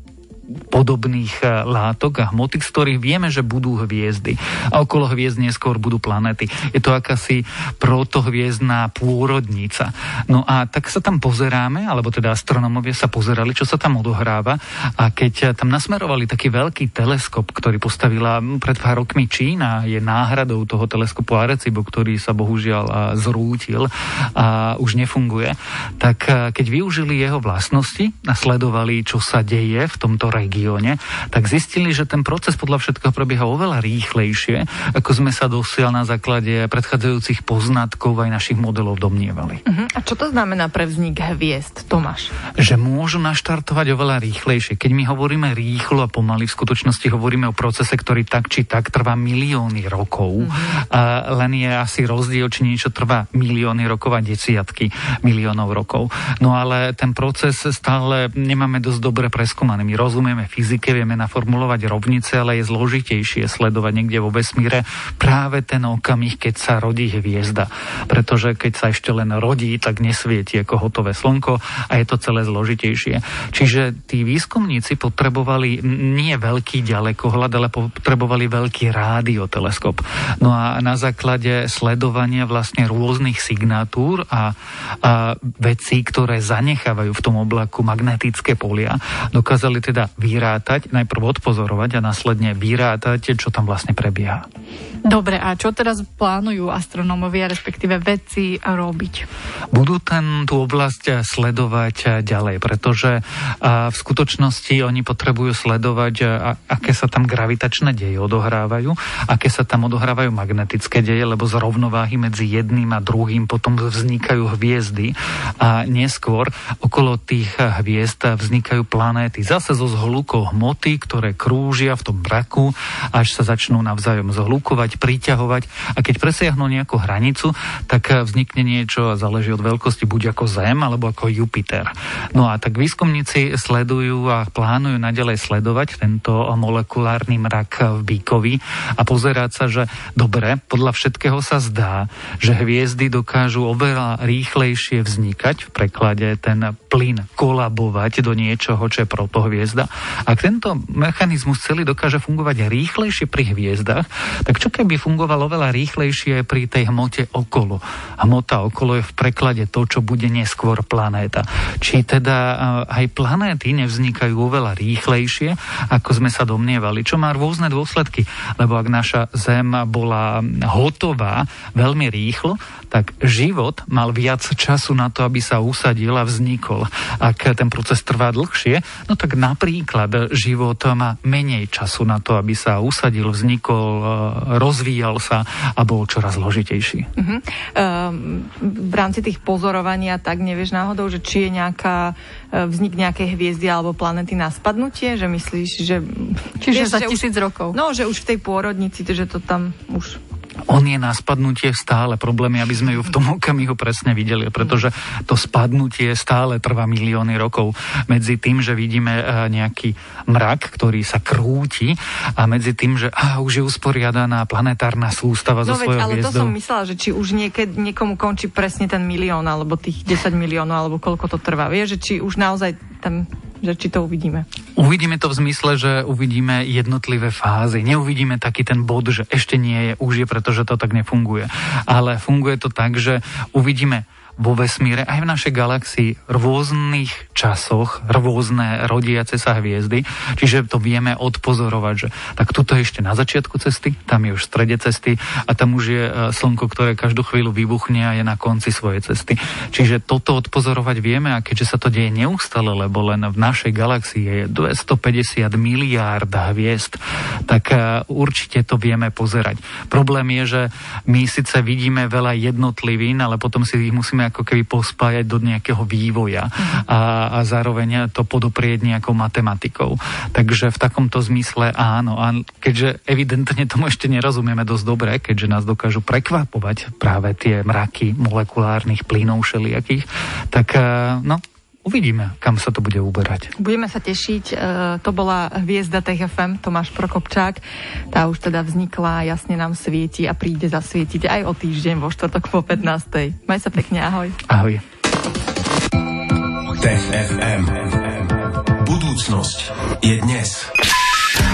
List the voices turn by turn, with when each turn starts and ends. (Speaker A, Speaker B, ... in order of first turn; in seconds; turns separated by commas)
Speaker A: 0.7-39.6, Speaker B: 39.7-42.3, Speaker A: 42.6-94.5, Speaker B: 50.4-50.8, Speaker C: 95.0-99.3, Speaker A: 99.7-187.1, Speaker B: 187.2-200.2, Speaker C: 196.6-197.8, Speaker A: 200.7-216.6, Speaker B: 215.6-224.5, Speaker A: 224.8-283.5, Speaker B: 283.6-294.4, Speaker A: 294.5-294.8, Speaker D: 296.8-300.7